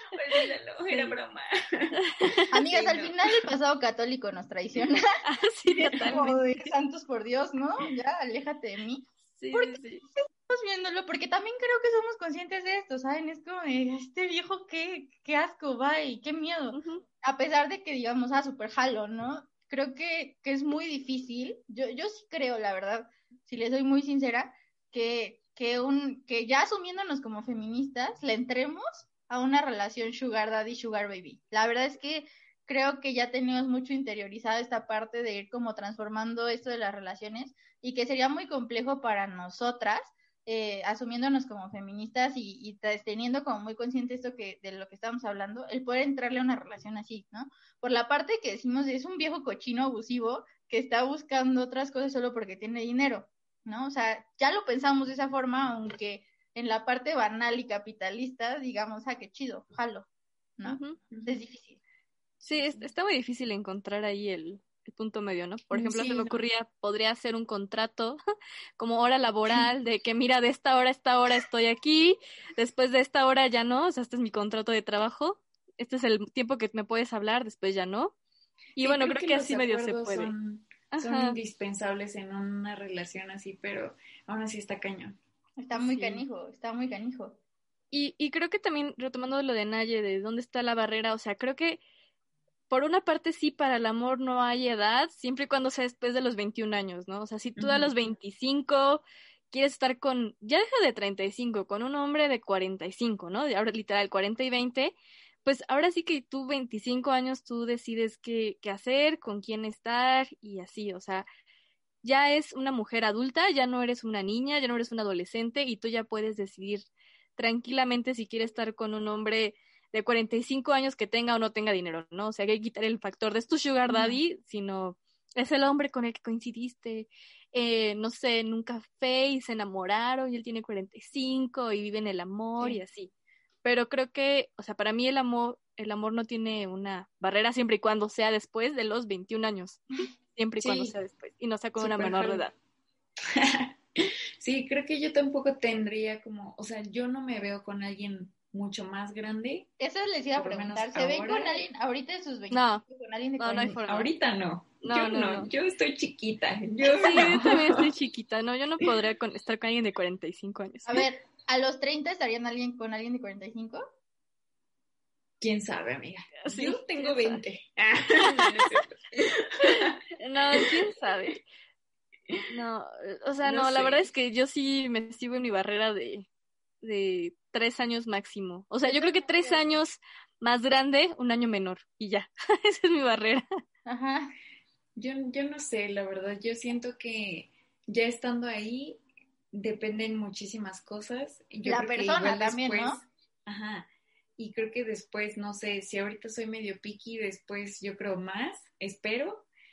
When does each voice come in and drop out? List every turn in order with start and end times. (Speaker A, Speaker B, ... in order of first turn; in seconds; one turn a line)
Speaker A: 0.1-3.2
Speaker B: 2.5-5.0
Speaker C: 5.2-6.7
Speaker B: 5.8-9.8
Speaker C: 9.4-10.1
Speaker B: 10.5-61.8
Speaker C: 16.7-17.0
Speaker C: 60.6-61.0
Speaker A: 61.1-61.4
Speaker A: 62.4-62.9
Speaker C: 62.5-68.2
Speaker A: 65.7-66.4
Speaker C: 68.8-78.2
Speaker C: 78.8-80.3
Speaker A: 78.8-85.2
Speaker C: 80.9-81.4
Speaker B: 85.6-87.4
Speaker C: 85.8-86.2
Speaker C: 87.9-91.8
Speaker C: 92.7-111.3
Speaker A: 97.6-97.9
Speaker C: 112.0-133.1
Speaker A: 123.9-124.2
Speaker C: 133.6-142.5
Speaker A: 140.6-141.0
Speaker A: 141.8-142.4
Speaker A: 143.3-149.7
Speaker B: 149.8-153.8
Speaker A: 150.4-151.6
Speaker C: 152.5-152.8
Speaker C: 153.4-154.1
Speaker A: 153.8-157.9
Speaker C: 154.8-155.5
Speaker C: 156.9-161.0
Speaker B: 160.9-163.8
Speaker A: 165.4-170.0
Speaker C: 166.4-167.4
Speaker C: 168.2-168.8
Speaker C: 170.2-171.4
Speaker C: 172.5-176.3
Speaker A: 173.4-174.1
Speaker C: 176.8-183.5
Speaker B: 178.9-179.6
Speaker B: 183.9-184.3
Speaker A: 184.9-189.0
Speaker A: 189.5-199.5
Speaker B: 191.6-193.0